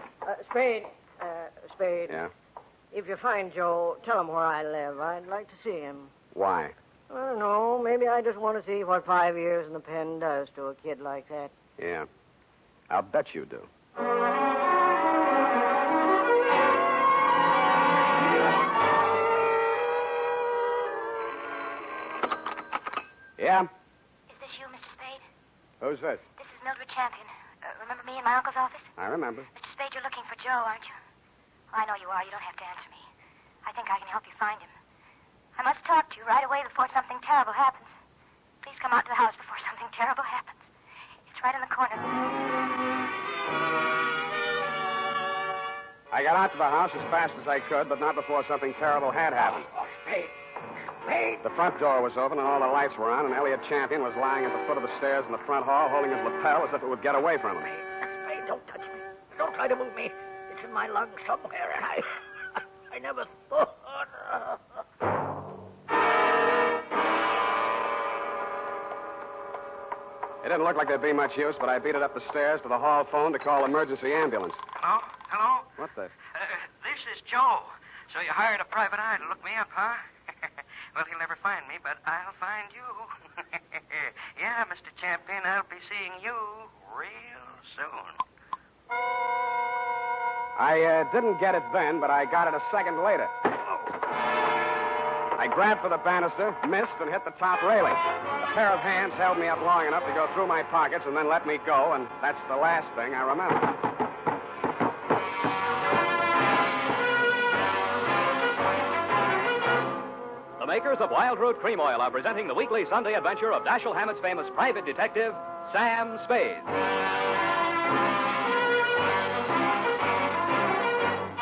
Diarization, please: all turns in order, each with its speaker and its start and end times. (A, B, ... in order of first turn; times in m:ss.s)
0:00.2-0:02.2 A
0:02.9-0:06.1 A
0:06.3-0:06.7 B
0:07.1-0:11.5 A
0:11.8-0:12.1 B
0:12.9-0:13.7 B
0:23.4-0:23.7 B
0:24.3-0:25.2 C
0:25.8-0:26.2 B
0:26.4-0:28.9 C
0:29.0-0:29.5 B
0:29.5-0:30.9 C
0:31.7-0:33.0 C
0:33.6-0:34.7 C
0:35.6-0:37.9 C
0:38.6-0:40.6 C
0:41.3-0:42.2 C
0:46.1-0:49.7 B
0:49.6-0:50.3 D
0:51.0-0:51.4 D
0:51.4-0:57.7 B
0:57.7-1:02.2 D
1:02.9-1:04.6 D
1:10.4-1:14.6 B
1:14.8-1:15.7 E
1:15.8-1:16.1 B
1:16.3-1:20.0 E
1:20.9-1:28.2 E
1:30.6-1:33.3 B
1:35.4-1:43.8 B
1:50.6-1:56.7 F